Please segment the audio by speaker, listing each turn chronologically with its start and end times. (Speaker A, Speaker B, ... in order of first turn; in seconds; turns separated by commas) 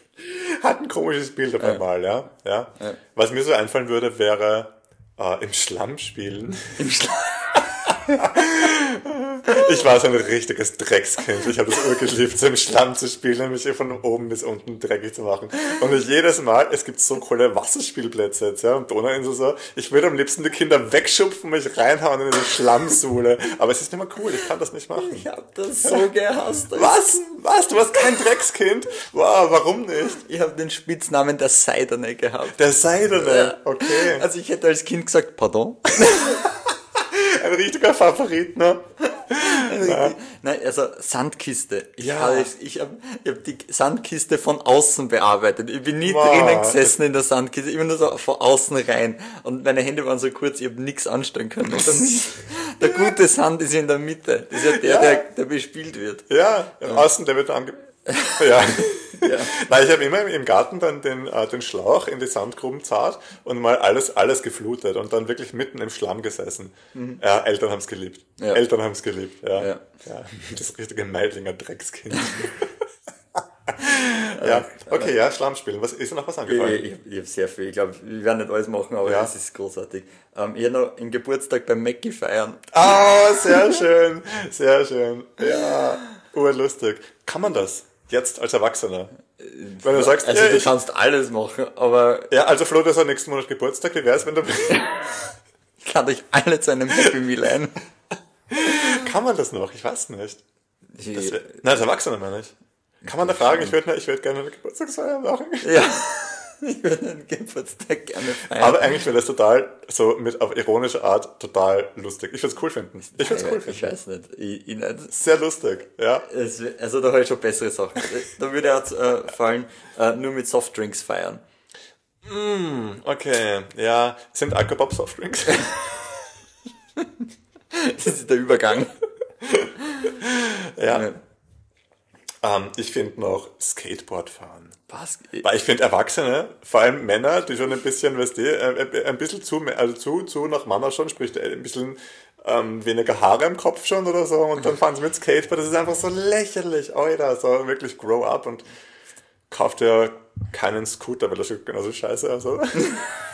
Speaker A: 0.2-6.8, Speaker B: 6.8-8.3, Speaker A: 7.9-25.3, Speaker B: 25.0-27.2, Speaker A: 26.7-30.2, Speaker B: 30.2-32.6, Speaker A: 32.5-34.3, Speaker B: 33.1-36.5, Speaker A: 36.0-40.2, Speaker B: 39.3-56.3, Speaker A: 42.0-42.5, Speaker A: 46.0-47.0, Speaker A: 52.8-53.1, Speaker A: 54.5-55.3, Speaker A: 56.3-72.7, Speaker B: 58.1-59.6, Speaker B: 66.9-67.2, Speaker B: 69.6-69.8, Speaker B: 72.2-72.5, Speaker A: 73.4-76.8, Speaker B: 74.3-75.1, Speaker B: 76.5-82.7, Speaker A: 79.0-79.3, Speaker A: 82.7-89.1, Speaker B: 89.4-92.3, Speaker A: 89.8-90.7, Speaker A: 92.3-95.1, Speaker B: 95.8-97.8, Speaker A: 98.5-100.4, Speaker B: 101.0-101.6, Speaker A: 101.1-105.9, Speaker B: 103.2-103.8, Speaker B: 105.6-109.0, Speaker A: 108.5-114.0, Speaker B: 113.1-115.2, Speaker A: 115.1-116.3, Speaker B: 116.3-121.4, Speaker A: 122.2-126.1, Speaker B: 127.7-129.0, Speaker A: 129.4-131.1, Speaker B: 130.9-131.2, Speaker A: 132.4-134.8, Speaker B: 134.9-135.5, Speaker A: 135.4-148.7, Speaker A: 149.5-153.1